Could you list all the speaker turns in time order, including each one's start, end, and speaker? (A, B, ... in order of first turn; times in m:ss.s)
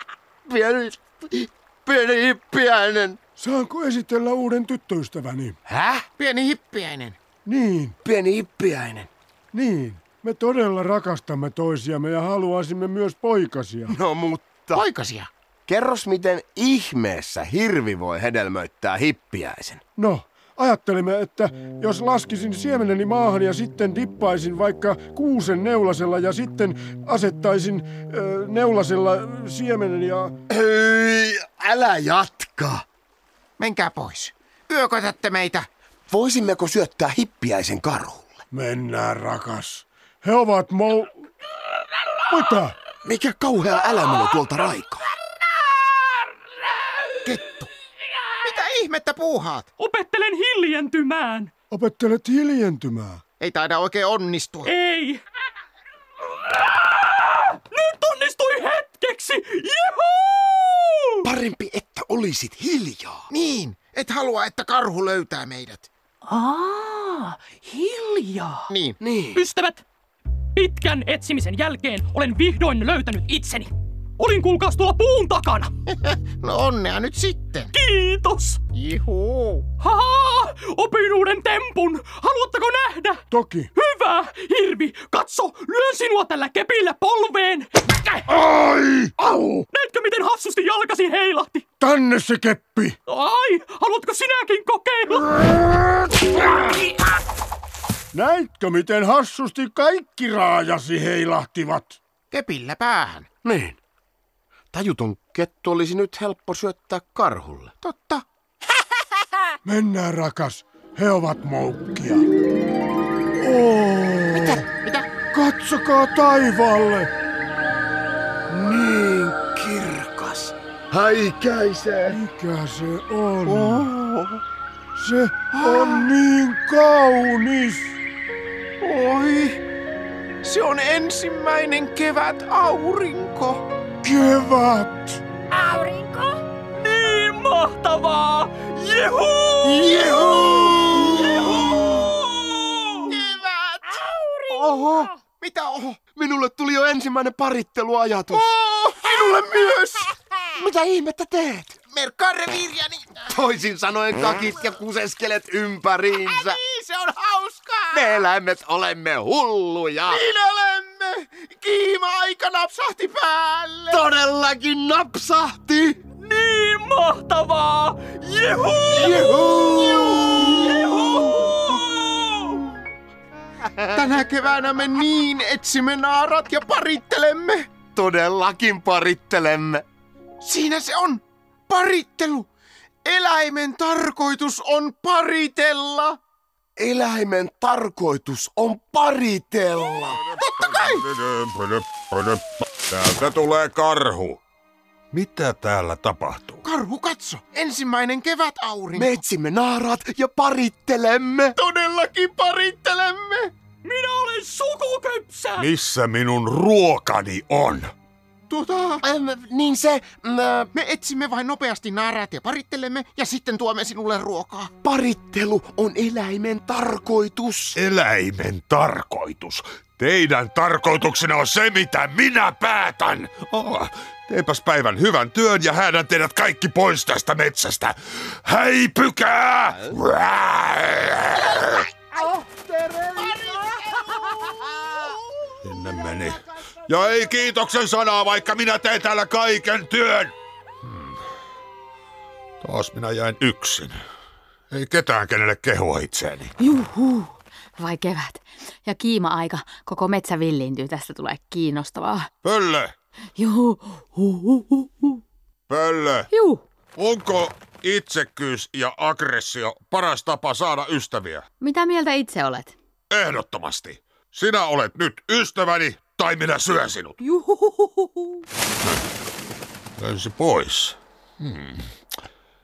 0:00.4-0:03.2 A
0:03.4-0:05.6 B
0:05.7-0:06.1 A
0:06.2-0:07.2 C
0:07.4-0:08.0 B
0:08.0-0:09.1 A
0:09.5-0:14.0 B
0:13.9-0:14.8 A
0:14.8-0:15.3 C
0:15.7-0:19.8 A
0:20.0-0:30.4 B
0:30.5-0:32.8 A
0:33.6-0:35.7 C
0:36.1-0:38.4 A
0:38.5-0:41.1 B
0:42.3-0:42.8 B
0:43.0-0:45.0 A
0:47.2-0:47.7 C
0:48.4-0:49.7 C
0:49.8-0:51.5 D
0:51.7-0:53.2 B
0:53.4-0:54.7 C
0:54.6-0:55.2 D
0:57.2-1:01.2 D
1:01.2-1:03.3 A
1:03.3-1:05.9 C
1:06.3-1:08.7 D
1:08.7-1:09.0 C
1:09.0-1:09.4 A
1:09.3-1:09.8 D
1:10.6-1:15.8 D
1:15.9-1:17.7 C
1:17.7-1:18.6 D
1:18.7-1:19.7 C
1:19.8-1:23.2 D
1:23.3-1:23.7 B
1:23.8-1:27.9 D
1:28.8-1:29.6 B
1:29.7-1:31.6 D
1:31.8-1:33.0 B
1:33.1-1:35.3 D
1:38.1-1:42.0 B
1:42.3-1:43.3 C
1:43.4-1:43.8 A
1:44.7-1:47.7 A
1:47.8-1:48.2 C
1:49.6-1:52.3 B
1:53.4-1:54.6 B
1:54.3-1:55.2 C
1:55.3-1:57.1 B
1:58.5-2:02.2 A
2:02.1-2:03.7 B
2:03.4-2:04.4 C
2:05.0-2:08.0 B
2:05.5-2:06.2 C
2:08.8-2:09.6 C
2:10.4-2:13.6 C
2:14.0-2:15.2 B
2:15.7-2:16.3 E
2:16.8-2:23.1 D
2:19.6-2:21.1 A
2:20.0-2:20.7 C
2:23.1-2:24.0 C
2:24.0-2:25.0 D
2:24.5-2:25.1 A
2:25.3-2:26.0 C
2:26.1-2:28.4 A
2:28.3-2:30.1 C
2:30.6-2:31.8 A
2:31.9-2:33.3 C
2:33.3-2:36.6 A
2:36.1-2:38.2 C
2:37.9-2:40.2 A
2:40.1-2:44.0 C
2:43.9-2:46.0 A
2:46.2-2:52.6 D
2:48.9-2:50.8 A
2:53.9-2:57.7 C
2:57.9-2:59.8 A
3:00.4-3:02.5 C
3:03.0-3:06.2 C
3:06.8-3:10.2 A
3:10.4-3:14.4 F
3:10.4-3:11.0 C
3:15.1-3:16.6 F
3:16.6-3:19.2 C
3:18.9-3:21.6 A
3:21.6-3:23.5 C
3:23.8-3:25.7 D
3:25.6-3:27.9 F
3:28.5-3:29.0 C
3:29.0-3:30.7 A
3:30.7-3:34.7 C
3:34.8-3:37.8 A
3:37.8-3:51.9 F
3:52.3-3:54.8 A
3:55.6-4:01.2 F
4:02.6-4:04.0 F
4:04.7-4:06.5 F
4:06.6-4:12.3 E
4:12.4-4:12.9 F
4:13.4-4:15.2 E
4:15.7-4:16.3 F
4:16.3-4:16.6 E
4:17.0-4:21.5 F
4:21.6-4:22.8 E
4:23.1-4:27.2 F
4:27.2-4:28.4 E
4:30.0-4:31.9 F